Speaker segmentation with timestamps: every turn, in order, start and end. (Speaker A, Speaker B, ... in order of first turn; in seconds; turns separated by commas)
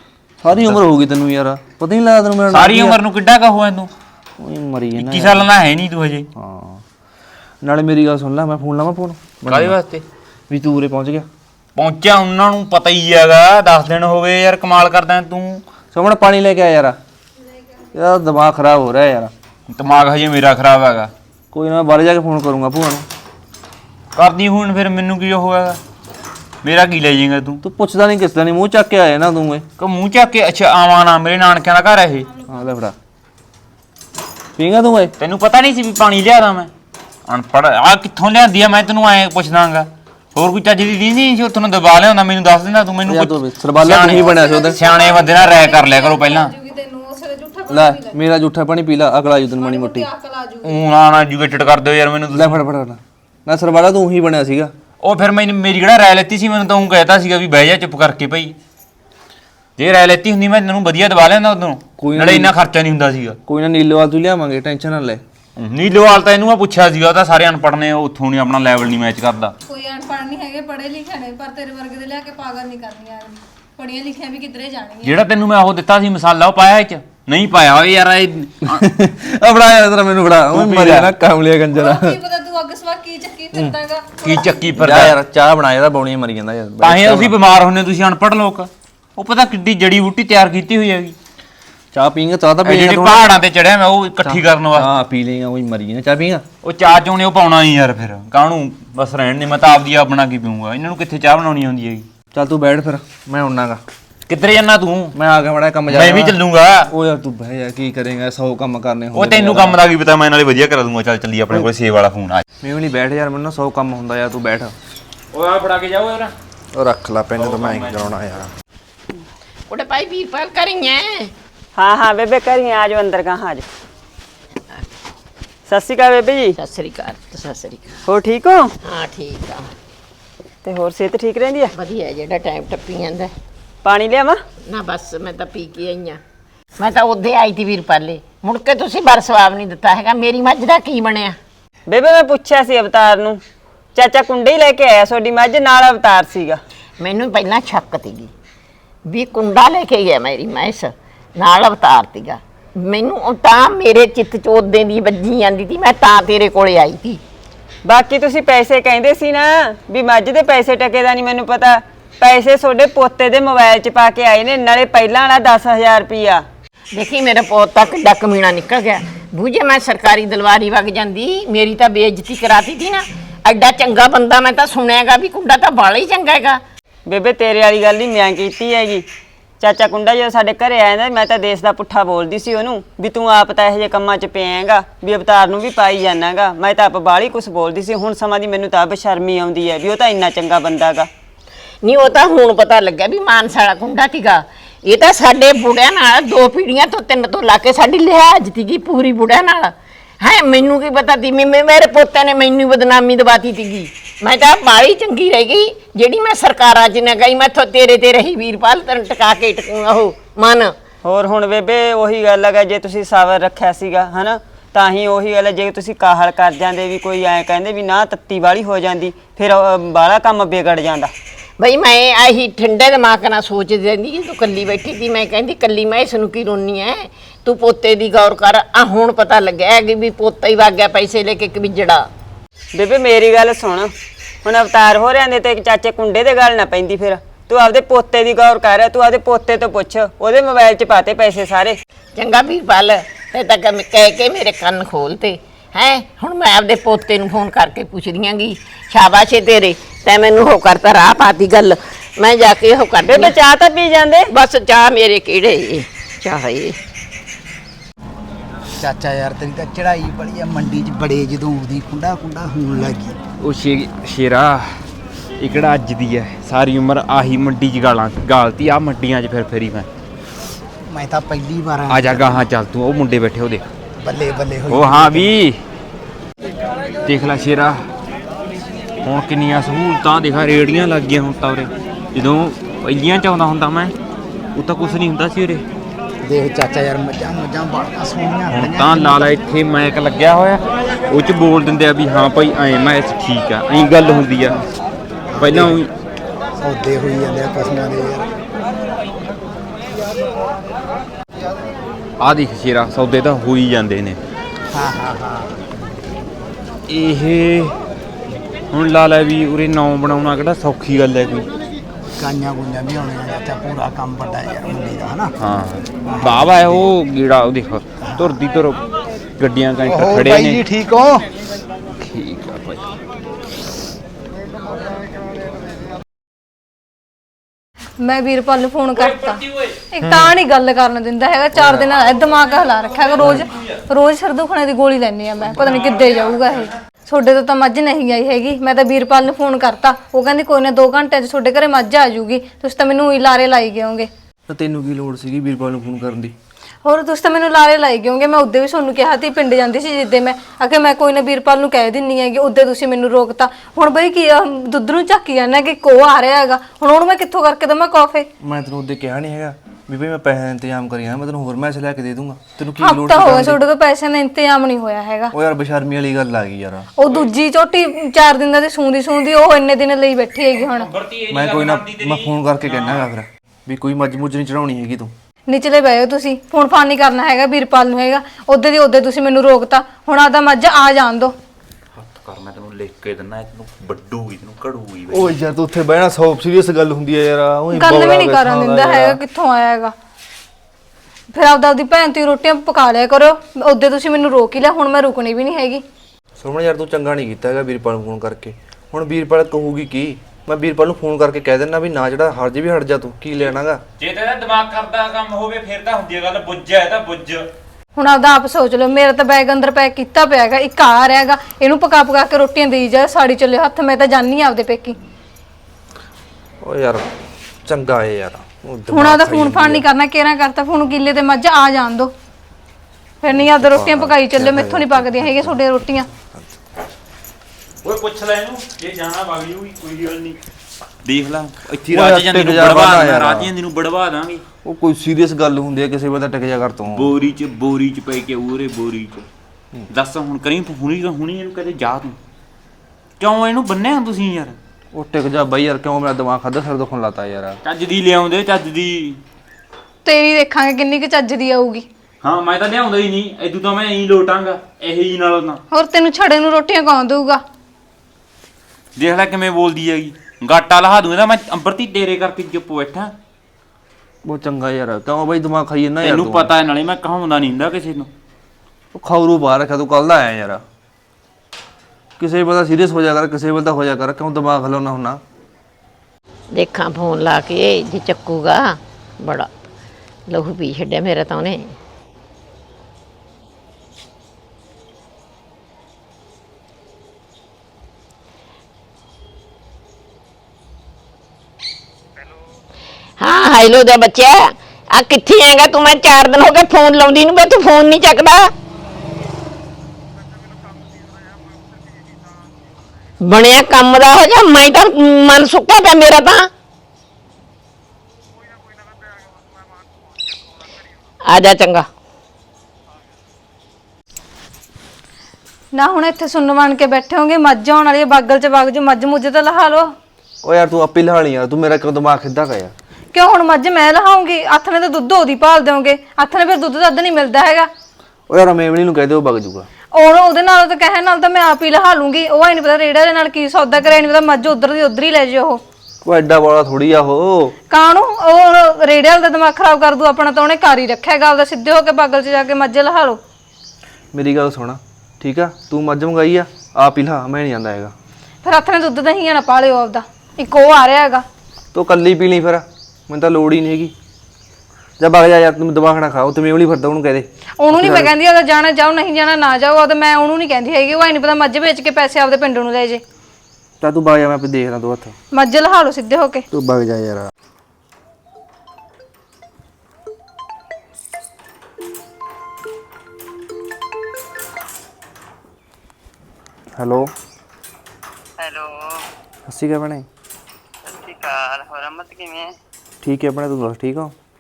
Speaker A: 0.4-3.0, Speaker B: 2.5-3.9, Speaker A: 4.4-5.5, Speaker B: 5.0-6.3, Speaker A: 6.3-6.8, Speaker A: 7.6-9.8, Speaker B: 9.5-10.0, Speaker A: 10.5-11.3, Speaker B: 11.7-15.6, Speaker A: 15.9-17.0, Speaker A: 17.9-19.3, Speaker B: 19.7-21.1, Speaker A: 21.5-23.1, Speaker B: 24.1-25.8, Speaker B: 26.6-27.6, Speaker A: 27.6-29.6, Speaker B: 29.8-32.3, Speaker A: 32.5-32.9, Speaker A: 34.6-35.1, Speaker B: 35.2-36.7, Speaker B: 37.3-46.5, Speaker A: 43.0-44.8, Speaker C: 44.1-48.2, Speaker A: 47.7-50.1, Speaker C: 49.6-50.8, Speaker B: 50.6-52.6, Speaker A: 52.3-54.7, Speaker B: 55.0-58.5, Speaker B: 59.8-63.4, Speaker A: 62.0-62.5, Speaker A: 63.5-65.2, Speaker B: 65.6-69.5, Speaker C: 69.7-75.2, Speaker B: 75.0-78.8, Speaker A: 78.7-82.2, Speaker B: 80.5-81.1, Speaker C: 81.7-84.5, Speaker B: 84.2-85.2, Speaker A: 84.7-87.4, Speaker B: 86.8-91.2, Speaker A: 91.9-93.3, Speaker B: 92.6-94.9, Speaker A: 94.2-96.4, Speaker B: 96.6-102.1, Speaker A: 102.3-103.8, Speaker B: 104.3-105.1, Speaker A: 105.1-106.4, Speaker B: 105.9-106.9, Speaker A: 106.9-109.8, Speaker B: 109.1-112.4, Speaker A: 112.6-114.7, Speaker B: 115.3-116.3, Speaker A: 116.7-118.5, Speaker B: 117.4-118.1, Speaker D: 119.7-121.3, Speaker E: 121.8-123.6, Speaker E: 125.7-126.5, Speaker D: 126.6-128.0, Speaker E: 128.1-128.7, Speaker D: 128.8-129.7, Speaker E: 130.6-131.7, Speaker D: 131.7-133.3, Speaker E: 133.8-134.4, Speaker D: 134.7-136.2, Speaker D: 136.8-141.4, Speaker E: 141.9-143.4, Speaker E: 143.9-146.6, Speaker D: 147.0-148.3, Speaker D: 149.1-157.2, Speaker E: 157.8-166.4, Speaker D: 166.9-176.6, Speaker E: 177.1-179.0, Speaker E: 179.6-191.1, Speaker D: 191.8-210.7, Speaker E: 211.0-221.1, Speaker D: 221.6-232.1, Speaker E: 232.7-233.9, Speaker E: 234.4-241.7, Speaker D: 242.2-253.3, Speaker E: 253.0-254.3, Speaker D: 254.3-256.8, Speaker F: 258.8-263.2, Speaker B: 263.4-264.9, Speaker B: 265.4-269.9, Speaker F: 270.9-272.5, Speaker B: 271.9-273.7, Speaker F: 274.0-275.3, Speaker B: 274.7-275.6, Speaker B: 277.1-277.8, Speaker B: 279.0-283.9, Speaker B: 284.5-285.6, Speaker F: 286.2-289.3, Speaker B: 288.5-294.6, Speaker F: 295.3-295.8, Speaker B: 295.4-295.9, Speaker F: 296.6-298.3, Speaker B: 302.2-304.2, Speaker F: 304.7-305.9, Speaker B: 306.9-307.7, Speaker B: 308.7-311.5, Speaker F: 312.2-315.3, Speaker B: 315.4-318.8, Speaker F: 316.0-316.9, Speaker F: 318.0-318.4, Speaker B: 319.4-320.6, Speaker F: 319.9-321.2, Speaker B: 322.0-322.8, Speaker C: 328.0-344.1, Speaker B: 329.0-329.9, Speaker B: 333.2-333.6, Speaker B: 335.7-336.2, Speaker A: 344.5-346.3, Speaker C: 346.8-358.3, Speaker A: 358.4-363.6, Speaker C: 362.8-365.3, Speaker A: 365.3-366.9, Speaker C: 367.0-370.9, Speaker B: 370.6-373.1, Speaker A: 371.3-375.1, Speaker C: 375.5-381.3, Speaker B: 381.9-385.3, Speaker A: 385.1-389.2, Speaker C: 387.7-389.9, Speaker C: 391.3-395.8, Speaker A: 396.4-403.8, Speaker B: 404.0-407.4, Speaker C: 407.9-414.9, Speaker A: 416.6-417.1, Speaker A: 417.6-419.8, Speaker C: 418.9-422.1, Speaker C: 423.2-426.1, Speaker A: 423.3-425.6, Speaker B: 427.8-430.4, Speaker B: 431.0-434.4, Speaker A: 431.9-433.5, Speaker A: 434.6-437.1, Speaker B: 436.9-439.3, Speaker B: 439.9-442.1, Speaker B: 443.2-444.6, Speaker A: 444.9-447.6, Speaker B: 447.6-449.2, Speaker C: 450.0-451.9, Speaker B: 452.2-455.6, Speaker C: 455.7-457.4, Speaker B: 458.9-463.1, Speaker A: 464.2-466.5, Speaker B: 466.0-468.1, Speaker A: 468.9-470.6, Speaker A: 472.2-475.2, Speaker D: 476.5-479.5, Speaker D: 480.3-481.8, Speaker D: 493.2-498.5, Speaker D: 503.2-506.5, Speaker D: 511.2-511.9, Speaker C: 515.7-519.9, Speaker A: 520.4-522.7, Speaker C: 523.1-527.7, Speaker A: 528.3-529.7, Speaker C: 529.9-535.6, Speaker A: 536.0-537.5, Speaker C: 537.7-543.2, Speaker A: 544.1-547.9, Speaker C: 548.4-551.2, Speaker A: 551.7-553.9, Speaker A: 555.0-558.1, Speaker C: 557.6-563.0, Speaker A: 563.8-565.1, Speaker C: 565.3-566.5, Speaker A: 566.5-567.3, Speaker A: 576.7-577.1, Speaker G: 578.4-579.0, Speaker A: 579.5-580.0, Speaker G: 580.9-582.5, Speaker A: 583.0-584.1